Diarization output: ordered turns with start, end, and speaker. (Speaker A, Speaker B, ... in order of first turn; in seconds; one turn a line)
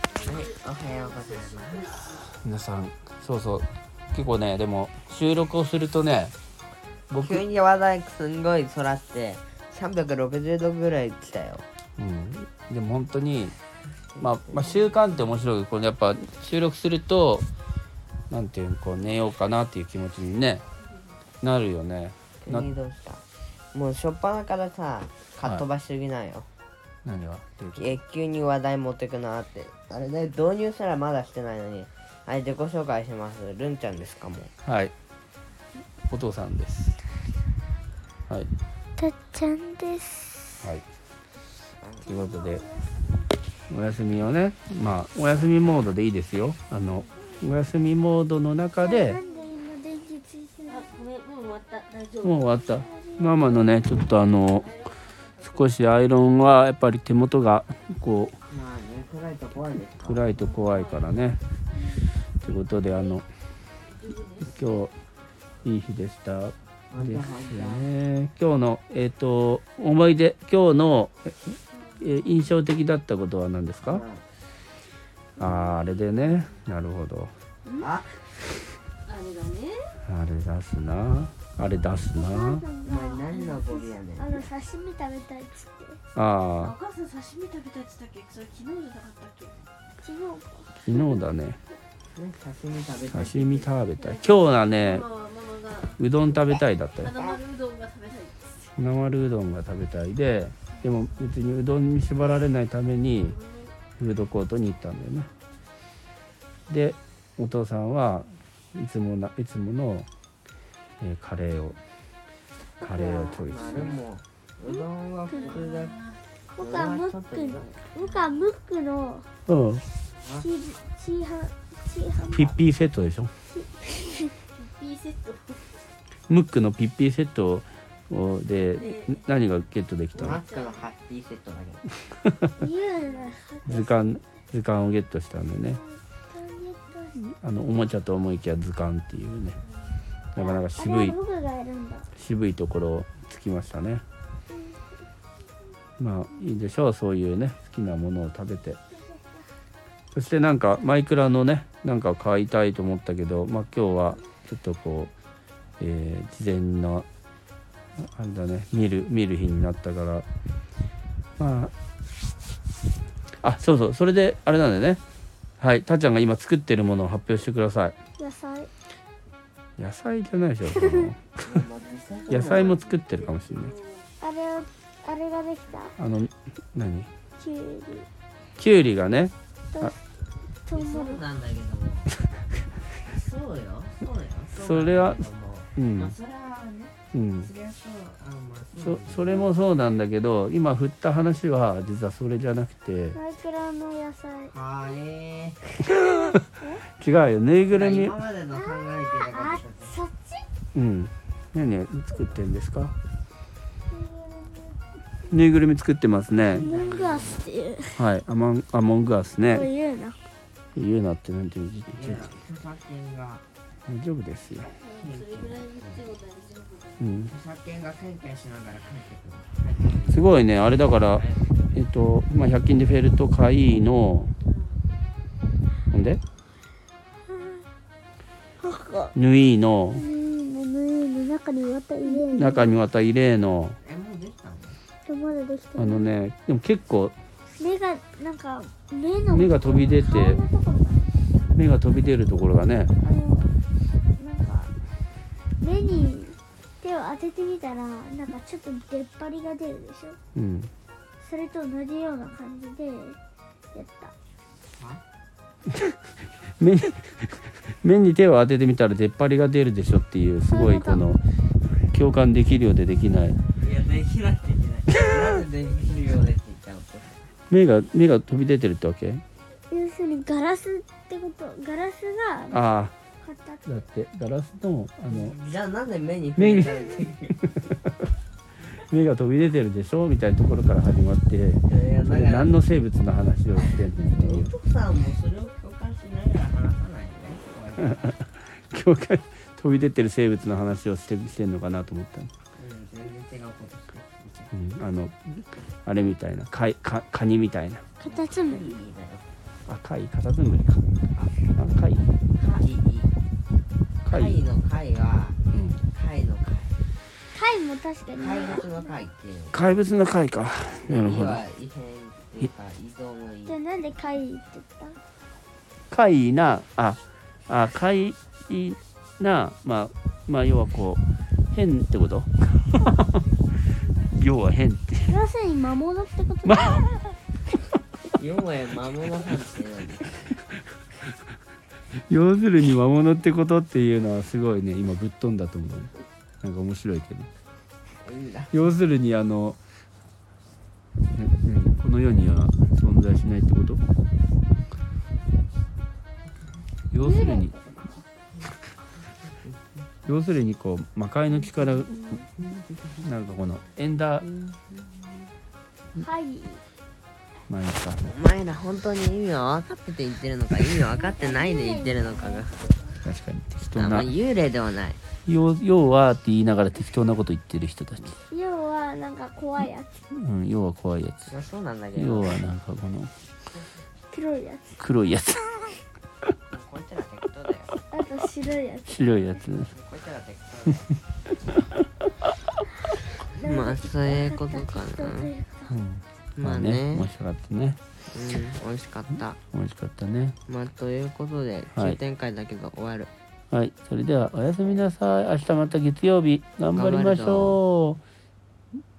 Speaker A: 0.2-2.2
Speaker B: 2.3-6.3
Speaker B: 7.1-7.4
Speaker A: 7.2-11.7
Speaker B: 12.0-13.6
Speaker A: 14.2-15.0
Speaker B: 14.2-17.5
Speaker B: 18.3-20.6
Speaker B: 21.4-22.7
Speaker A: 22.4-26.5
Speaker B: 27.1-28.0
Speaker A: 27.8-34.5
Speaker B: 34.6-34.9
Speaker B: 36.1-37.0
Speaker C: 39.0-40.6
Speaker A: 41.8-42.1
Speaker B: 42.0-42.6
Speaker C: 42.1-43.2
Speaker B: 43.7-49.2
Speaker C: 48.8-51.0
Speaker D: 50.7-52.4
Speaker B: 52.2-54.7
Speaker C: 52.7-53.6
Speaker D: 54.6-54.9
Speaker B: 55.4-58.4
Speaker A: 58.5-60.2
Speaker B: 60.0-61.4
Speaker D: 60.4-61.0
Speaker B: 62.4-63.2
Speaker D: 63.9-64.7
Speaker B: 64.4-64.9
Speaker B: 65.6-71.4
Speaker A: 66.9-67.9
Speaker B: 72.0-74.0
Speaker A: 73.9-74.2
Speaker B: 75.4-77.3
Speaker C: 75.4-75.7
Speaker A: 77.8-78.1
Speaker D: 79.1-79.9
Speaker B: 80.1-82.7
Speaker C: 82.2-86.0
Speaker A: 82.8-84.5
Speaker B: 86.2-86.8
Speaker D: 86.6-89.6
Speaker C: 90.0-91.2
Speaker B: 90.8-91.6
Speaker A: 92.2-93.7
Speaker B: 93.1-95.0
Speaker D: 94.0-96.0
Speaker B: 96.0-97.2
Speaker D: 97.0-98.7
Speaker A: 97.1-97.4
Speaker B: 98.8-103.4
Speaker D: 103.3-103.7
Speaker B: 104.0-105.3
Speaker B: 106.7-110.1
Speaker B: 111.0-111.8
Speaker A: 112.8-116.0
Speaker B: 112.8-113.9
Speaker D: 115.3-116.2
Speaker C: 116.6-119.3
Speaker A: 116.6-117.7
Speaker B: 119.5-119.8
Speaker A: 120.0-120.5
Speaker C: 120.4-122.6
Speaker B: 122.3-123.3
Speaker C: 123.5-124.3
Speaker D: 124.5-125.8
Speaker B: 126.3-130.4
Speaker D: 128.8-129.2
Speaker D: 130.2-130.8
Speaker A: 130.2-131.9
Speaker C: 132.6-134.1
Speaker B: 133.7-135.8
Speaker C: 135.7-137.2
Speaker B: 137.4-139.6
Speaker B: 140.3-141.2
Speaker C: 140.4-142.1
Speaker B: 142.2-144.0
Speaker C: 144.5-144.9
Speaker B: 146.0-148.8
Speaker C: 148.9-149.5
Speaker B: 150.1-155.1
Speaker B: 155.8-157.1
Speaker B: 158.0-160.3
Speaker B: 161.4-161.7
Speaker B: 163.4-165.0
Speaker B: 165.6-167.9
Speaker C: 168.2-168.7
Speaker B: 169.8-171.4
Speaker A: 171.4-173.0
Speaker D: 172.3-172.7
Speaker B: 172.3-173.8
Speaker D: 173.3-174.1
Speaker C: 174.2-176.0
Speaker B: 176.0-177.1
Speaker C: 177.4-178.1
Speaker B: 178.6-179.9
Speaker C: 179.7-180.0
Speaker C: 180.7-181.2
Speaker A: 180.7-182.1
Speaker A: 183.0-189.5
Speaker B: 184.6-185.2
Speaker B: 185.8-186.2
Speaker B: 187.1-187.5
Speaker B: 188.8-193.2
Speaker C: 193.1-194.5
Speaker A: 194.5-195.7
Speaker C: 196.6-196.8
Speaker B: 197.0-198.2
Speaker A: 197.7-199.9
Speaker C: 198.5-200.5
Speaker B: 200.7-202.9
Speaker C: 203.9-204.8
Speaker B: 205.3-206.7
Speaker A: 206.5-207.5
Speaker C: 206.5-208.0
Speaker B: 208.0-209.7
Speaker C: 209.4-210.2
Speaker B: 210.8-212.2
Speaker A: 211.9-213.4
Speaker B: 213.9-214.8
Speaker D: 214.8-217.0
Speaker A: 214.9-216.1
Speaker B: 217.0-217.3
Speaker A: 217.3-220.3
Speaker B: 220.1-224.3
Speaker A: 221.0-221.8
Speaker D: 224.4-224.8
Speaker B: 225.9-226.2
Speaker C: 227.4-227.6
Speaker C: 228.6-229.1
Speaker B: 229.2-230.0
Speaker C: 229.9-232.8
Speaker B: 232.3-233.8
Speaker A: 233.8-234.8
Speaker C: 235.1-236.2
Speaker B: 235.8-237.2
Speaker C: 237.6-241.2
Speaker B: 239.3-240.4
Speaker B: 241.6-242.9
Speaker C: 243.0-243.5
Speaker C: 244.2-244.7
Speaker C: 245.6-250.2
Speaker B: 250.3-250.7
Speaker C: 251.2-253.2
Speaker C: 253.7-254.1
Speaker A: 254.7-255.0
Speaker B: 256.6-261.2
Speaker C: 260.5-261.0
Speaker B: 261.9-263.4
Speaker A: 263.6-267.2
Speaker B: 267.5-269.2
Speaker C: 269.7-272.6
Speaker B: 272.5-272.9
Speaker C: 273.2-273.8
Speaker B: 273.7-275.4
Speaker A: 275.1-277.4
Speaker B: 276.4-276.8
Speaker B: 278.7-284.5
Speaker A: 281.7-282.6
Speaker A: 283.6-288.2
Speaker B: 288.0-292.3
Speaker A: 292.6-294.5
Speaker B: 294.5-297.8
Speaker C: 298.0-298.7
Speaker A: 298.1-299.3
Speaker B: 299.7-301.0
Speaker B: 301.6-302.1
Speaker A: 302.4-303.1
Speaker B: 304.1-304.4
Speaker A: 304.1-306.8
Speaker B: 305.5-305.8
Speaker C: 307.3-308.8
Speaker A: 308.1-309.7
Speaker B: 309.5-311.4
Speaker A: 310.8-313.6
Speaker C: 313.5-315.0
Speaker B: 315.9-323.0
Speaker B: 324.1-325.2
Speaker C: 325.1-327.1
Speaker B: 326.4-326.8
Speaker A: 328.1-330.3
Speaker B: 331.9-337.3
Speaker A: 338.0-338.7
Speaker B: 338.5-339.6
Speaker B: 341.1-343.8
Speaker B: 346.9-347.6
Speaker C: 347.0-347.7
Speaker B: 350.1-352.2
Speaker A: 352.4-353.0
Speaker B: 353.0-354.3
Speaker A: 354.3-354.8
Speaker C: 356.0-356.6
Speaker B: 357.5-358.0
Speaker A: 358.1-362.6
Speaker C: 360.9-362.9
Speaker B: 363.0-364.1
Speaker A: 363.8-365.0
Speaker B: 365.3-368.2
Speaker C: 368.3-370.0
Speaker B: 370.1-371.3
Speaker A: 371.3-372.4
Speaker B: 371.9-373.1
Speaker C: 374.1-374.8
Speaker B: 374.8-375.8
Speaker A: 376.5-377.8
Speaker C: 377.9-379.4
Speaker B: 378.9-379.7
Speaker A: 379.6-380.9
Speaker C: 383.3-385.8
Speaker A: 383.4-385.3
Speaker B: 385.7-387.8
Speaker A: 386.4-387.1
Speaker A: 388.1-389.4
Speaker B: 389.5-390.4
Speaker A: 390.5-393.1
Speaker B: 391.7-392.0
Speaker B: 393.5-398.0
Speaker A: 396.7-397.6